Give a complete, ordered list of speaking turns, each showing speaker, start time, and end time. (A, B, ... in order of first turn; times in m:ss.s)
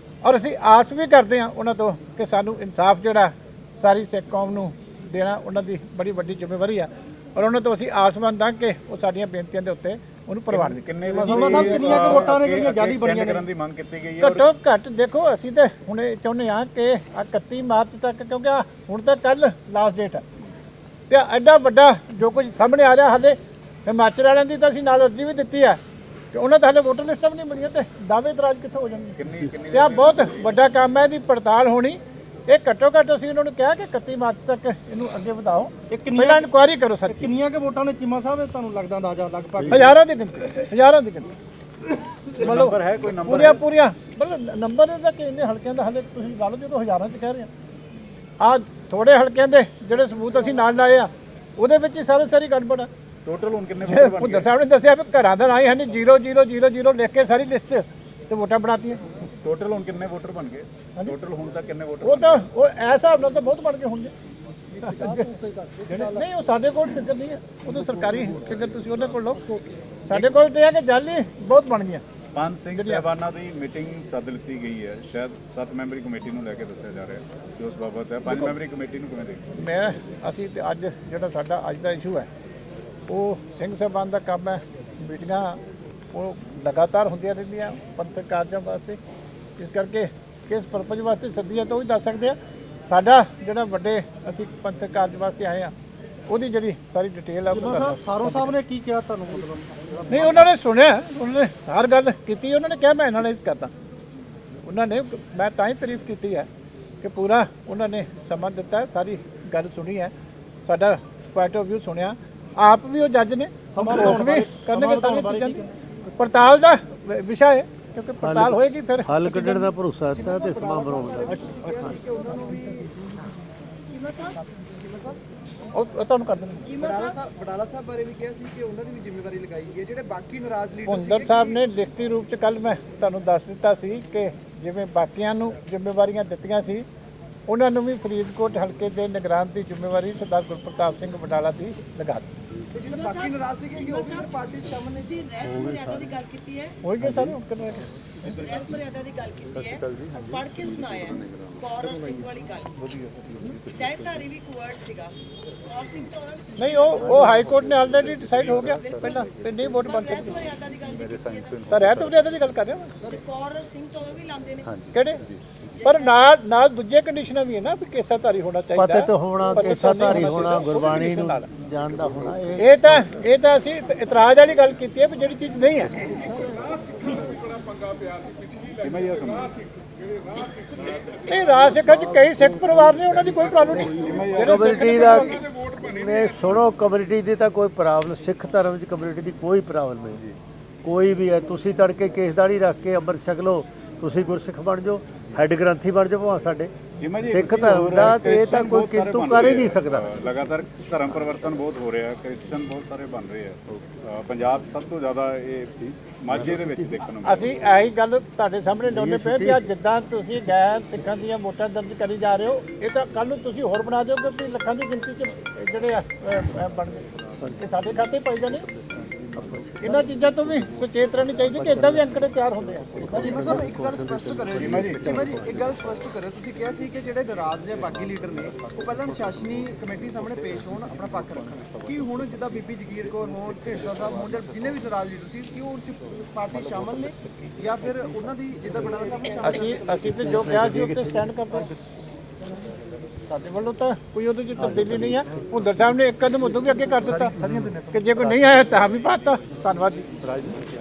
0:00.2-0:12.2 A
0:10.5-0:14.5 B
0:11.1-0:13.4 C
0:14.2-0:20.2 A
0:21.1-0:25.8 A
0:26.3-0:29.2 A
0:29.2-0:30.4 B
0:29.7-0:37.3 A
0:35.9-0:36.5 C
0:37.1-0:40.0 C
0:39.6-0:39.9 D
0:39.7-0:41.3 A
0:42.4-0:43.6 B
0:42.4-0:47.5 A
0:48.4-0:52.9 A
0:53.2-0:54.5 B
0:53.8-0:59.0 A
0:59.4-1:02.5 B
1:02.0-1:04.1 A
1:04.8-1:06.2 C
1:04.9-1:05.3 A
1:05.9-1:09.5 A
1:07.8-1:08.3 C
1:10.0-1:12.0 A
1:12.4-1:19.5 B
1:12.7-1:13.1 A
1:18.3-1:18.5 A
1:19.6-1:22.3 A
1:23.1-1:25.6 A
1:26.1-1:29.0 A
1:29.6-1:35.7 A
1:36.3-1:38.6 A
1:37.5-1:40.3 C
1:40.1-1:43.7 A
1:44.6-1:46.5 A
1:47.0-1:55.6 A
1:53.7-1:55.7 C
1:56.2-1:59.7 A
1:58.2-2:01.5 D
2:00.1-2:02.9 E
2:01.3-2:01.9 C
2:04.6-2:05.2 E
2:05.7-2:06.8 A
2:06.8-2:11.6 E
2:10.9-2:16.9 A
2:17.5-2:22.3 A
2:22.7-2:25.3 E
2:25.4-2:26.2 D
2:26.1-2:26.8 F
2:26.8-2:28.3 A
2:28.4-2:32.8 F
2:33.7-2:35.1 F
2:35.7-2:36.7 F
2:36.6-2:40.5 A
2:40.0-2:41.6 F
2:41.7-2:42.9 A
2:43.2-2:44.7 F
2:44.9-2:45.2 A
2:45.8-2:51.5 A
2:48.8-2:53.2 D
2:52.6-2:56.0 A
2:58.7-2:59.6 B
3:01.3-3:05.4 A
3:04.0-3:04.7 B
3:04.4-3:10.2 D
3:10.8-3:16.7 D
3:17.0-3:27.5 B
3:17.2-3:20.2 D
3:27.2-3:37.0 A
3:28.9-3:29.6 D
3:37.6-3:38.7 A
3:39.4-3:39.7 D
3:39.8-3:43.4 A
3:41.6-3:42.0 D
3:43.0-3:45.6 D
3:43.2-4:00.3 E
3:44.6-3:45.0 B
3:59.4-4:01.7 A
4:00.1-4:01.4 D
4:03.3-4:10.4 A
4:04.6-4:05.5 D
4:07.4-4:07.7 D